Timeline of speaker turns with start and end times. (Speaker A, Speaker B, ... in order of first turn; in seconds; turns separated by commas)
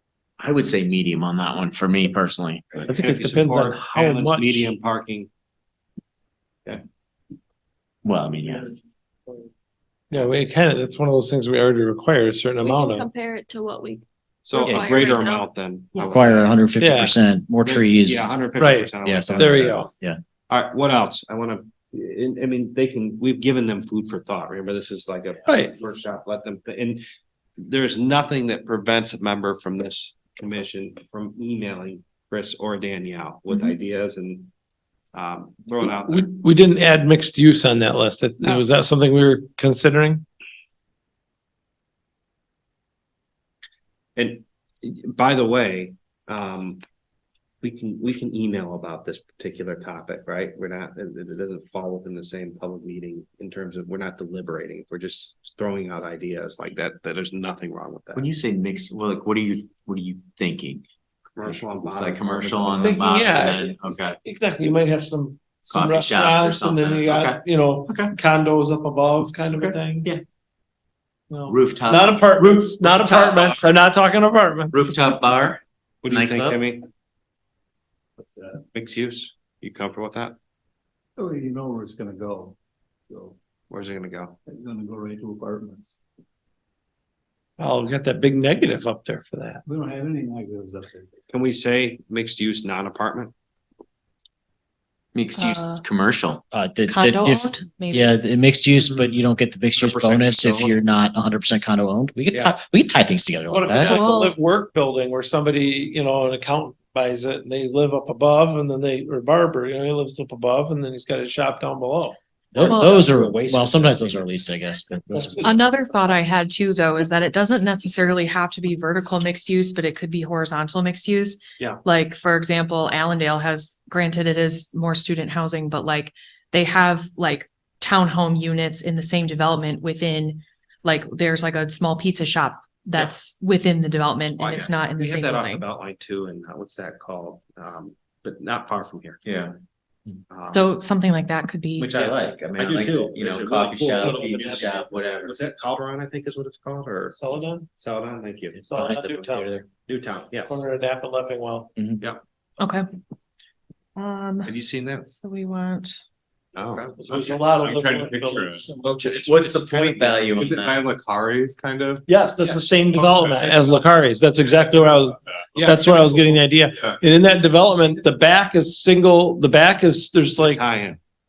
Speaker A: 0.4-2.9, Speaker B: 2.8-5.3, Speaker C: 2.9-4.7, Speaker A: 8.0-8.7, Speaker C: 10.1-13.1, Speaker D: 12.6-16.1, Speaker B: 14.4-16.4, Speaker E: 14.6-15.0, Speaker E: 16.0-18.4, Speaker C: 16.8-17.2, Speaker B: 17.6-19.8, Speaker C: 18.6-19.9, Speaker E: 19.0-20.2, Speaker B: 20.5-27.0, Speaker C: 25.5-25.7, Speaker B: 27.6-34.5, Speaker F: 33.5-33.8, Speaker B: 35.1-36.3, Speaker C: 36.0-40.2, Speaker B: 44.2-46.8, Speaker B: 47.6-58.3, Speaker A: 58.1-60.8, Speaker B: 61.4-63.0, Speaker A: 61.4-64.2, Speaker C: 62.8-70.1, Speaker A: 65.7-68.1, Speaker A: 69.5-70.2, Speaker C: 71.3-74.8, Speaker A: 71.5-73.7, Speaker A: 74.7-76.6, Speaker B: 76.0-76.9, Speaker G: 78.2-78.6, Speaker B: 78.7-80.4, Speaker G: 81.2-82.6, Speaker G: 83.1-83.4, Speaker B: 83.7-84.4, Speaker G: 84.5-86.0, Speaker C: 87.6-89.6, Speaker G: 89.7-91.1, Speaker B: 91.3-93.3, Speaker A: 95.1-96.4, Speaker F: 95.4-95.8, Speaker E: 96.5-104.0, Speaker F: 96.9-98.2, Speaker B: 99.8-100.8, Speaker C: 103.5-112.2, Speaker F: 103.8-104.3, Speaker E: 112.5-115.6, Speaker B: 112.6-114.2, Speaker F: 112.6-113.0, Speaker F: 115.4-135.7, Speaker B: 134.4-139.2, Speaker A: 139.2-139.5, Speaker B: 140.3-140.7, Speaker F: 140.5-142.1, Speaker A: 141.8-145.3, Speaker B: 142.0-148.6, Speaker C: 144.1-144.6, Speaker C: 147.2-147.7, Speaker C: 148.6-149.5, Speaker E: 148.7-149.7, Speaker B: 149.9-150.7, Speaker C: 150.4-151.7, Speaker F: 154.0-154.5, Speaker B: 154.4-155.1, Speaker F: 155.1-156.0, Speaker H: 156.6-158.7, Speaker B: 156.7-157.3, Speaker C: 157.0-158.8, Speaker A: 158.8-160.8, Speaker B: 158.9-159.3, Speaker C: 159.4-159.9, Speaker H: 160.2-163.9, Speaker C: 162.1-170.7, Speaker H: 165.3-167.0, Speaker B: 165.6-166.2, Speaker B: 170.4-171.0